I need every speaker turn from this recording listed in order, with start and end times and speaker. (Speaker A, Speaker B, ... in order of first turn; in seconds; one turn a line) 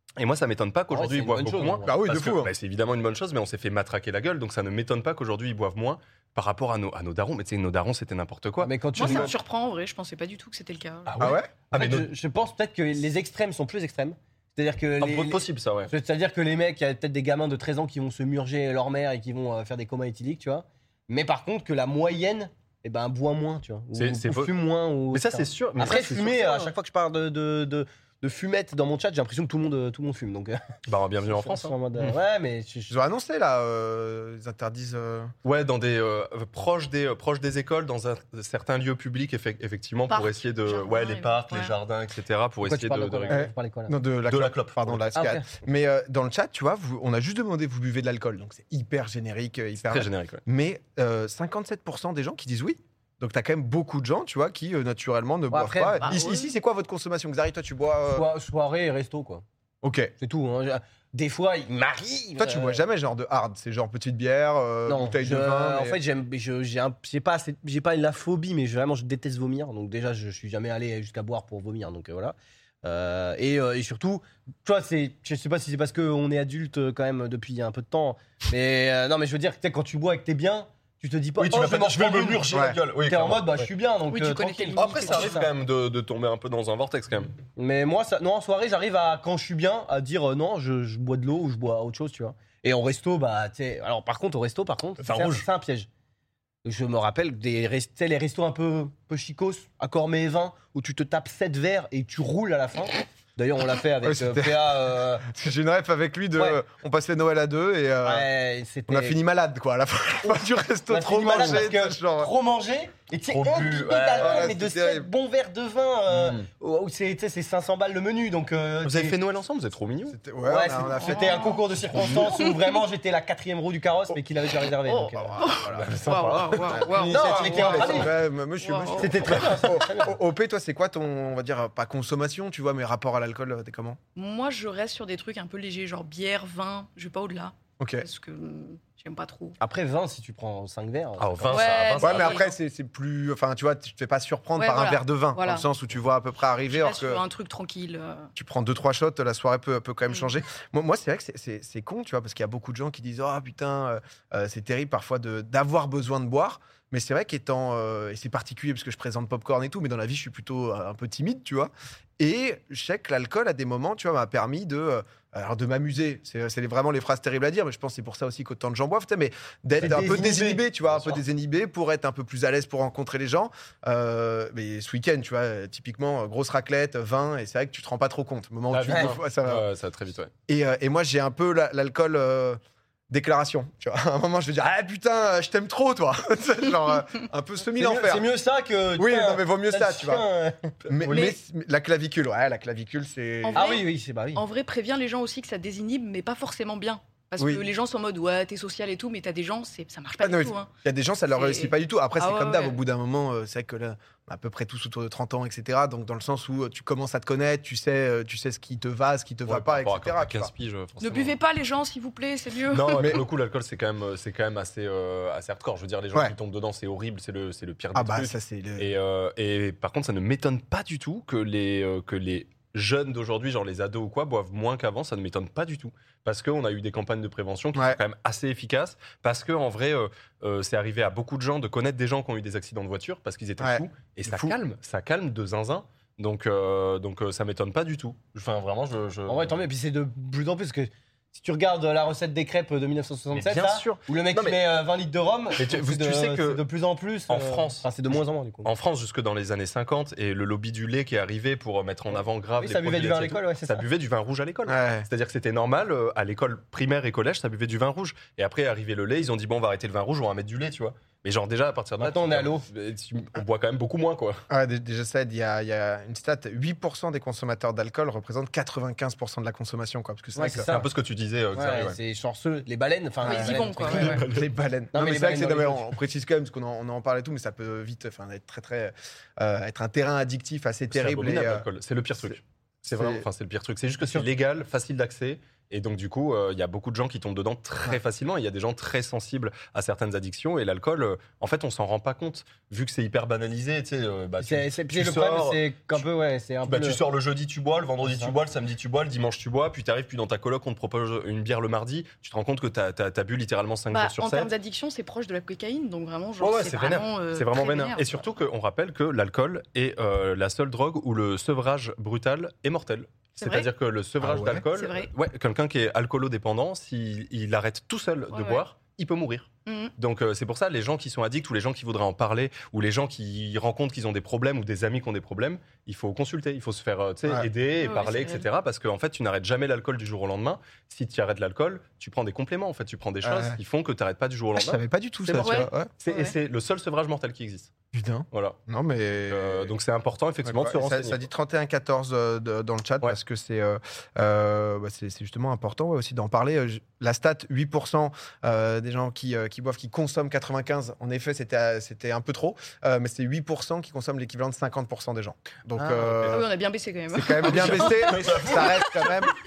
Speaker A: 0.2-9.3
Speaker B: 0.9-1.9
Speaker C: 1.8-2.5
Speaker B: 8.6-9.3
Speaker D: 8.9-11.3
Speaker A: 11.1-12.1
Speaker C: 11.2-11.5
Speaker B: 11.7-30.6
Speaker A: 15.0-15.9
Speaker A: 23.9-24.5
Speaker A: 25.1-26.7
Speaker A: 30.9-32.2
Speaker B: 31.2-32.9
Speaker C: 32.9-35.3
Speaker A: 35.4-43.4
Speaker D: 40.1-41.8
Speaker B: 42.6-44.0
Speaker C: 43.3-58.3
Speaker A: 44.3-45.0
Speaker B: 45.1-45.5
Speaker A: 49.8-50.4
Speaker B: 55.5-56.2
Speaker D: 56.0-56.5
Speaker B: 58.0-59.4
Speaker C: 59.8-60.1
Speaker B: 60.2-62.8
Speaker C: 62.4-66.0
Speaker B: 64.9-82.5
Speaker A: 81.4-83.7
Speaker C: 82.5-82.8
Speaker B: 83.0-85.5
Speaker D: 84.1-85.5
Speaker A: 84.8-87.3
Speaker B: 87.5-95.9
Speaker A: 95.0-95.5
Speaker B: 96.6-105.2
Speaker C: 104.0-108.3
Speaker B: 106.3-106.6
Speaker B: 108.0-109.2
Speaker C: 108.9-112.3
Speaker B: 110.9-119.2
Speaker A: 113.3-114.5
Speaker C: 114.2-115.1
Speaker A: 116.1-116.4
Speaker A: 118.8-120.2
Speaker C: 120.1-121.5
Speaker B: 120.4-128.1
Speaker D: 120.7-122.8
Speaker D: 124.8-129.2
Speaker C: 125.2-126.1
Speaker A: 125.8-127.4
Speaker C: 126.7-134.0
Speaker B: 129.0-130.1
Speaker D: 134.2-139.6
Speaker C: 137.8-138.1
Speaker B: 139.6-141.7
Speaker A: 141.2-142.4
Speaker D: 141.5-142.5
Speaker C: 142.0-147.2
Speaker D: 144.6-145.7
Speaker D: 146.7-148.3
Speaker C: 148.3-179.7
Speaker B: 169.8-170.6
Speaker A: 169.8-170.1
Speaker A: 178.7-180.3
Speaker C: 180.5-182.6
Speaker C: 183.1-188.3
Speaker B: 187.7-191.3
Speaker C: 189.0-190.2
Speaker C: 190.9-193.7
Speaker D: 191.1-191.4
Speaker D: 193.4-200.7
Speaker B: 193.5-194.4
Speaker C: 197.4-197.7
Speaker C: 200.2-210.5
Speaker D: 201.3-202.8
Speaker A: 209.4-211.4
Speaker D: 211.0-213.2
Speaker A: 212.7-239.6
Speaker C: 213.0-213.2
Speaker C: 217.9-218.9
Speaker C: 227.7-228.0
Speaker C: 233.6-234.6
Speaker B: 239.3-248.7
Speaker A: 243.3-244.6
Speaker A: 245.6-246.7
Speaker A: 247.3-247.9
Speaker A: 248.6-264.4
Speaker B: 252.1-253.8
Speaker C: 254.7-255.1
Speaker B: 262.0-262.6
Speaker C: 264.5-270.7
Speaker B: 270.4-270.9
Speaker A: 270.7-272.0
Speaker B: 271.5-274.2
Speaker D: 273.2-274.2
Speaker C: 273.3-282.4
Speaker A: 273.9-274.5
Speaker B: 274.9-275.9
Speaker A: 280.9-296.1
Speaker C: 282.9-283.2
Speaker B: 294.4-297.0
Speaker A: 296.6-304.5
Speaker B: 298.0-298.3
Speaker D: 303.9-308.1
Speaker A: 306.4-337.7
Speaker D: 313.4-313.7
Speaker C: 314.2-314.6
Speaker D: 314.7-315.1
Speaker D: 318.3-318.6
Speaker D: 319.6-319.9
Speaker D: 327.8-328.4
Speaker C: 333.2-333.6
Speaker C: 334.5-335.9
Speaker D: 335.4-336.4
Speaker C: 337.9-339.7
Speaker A: 338.3-338.6
Speaker A: 339.3-341.2
Speaker C: 340.4-356.5
Speaker A: 355.8-356.4
Speaker D: 356.3-358.2
Speaker C: 357.1-359.3
Speaker A: 357.4-358.7
Speaker B: 358.1-358.5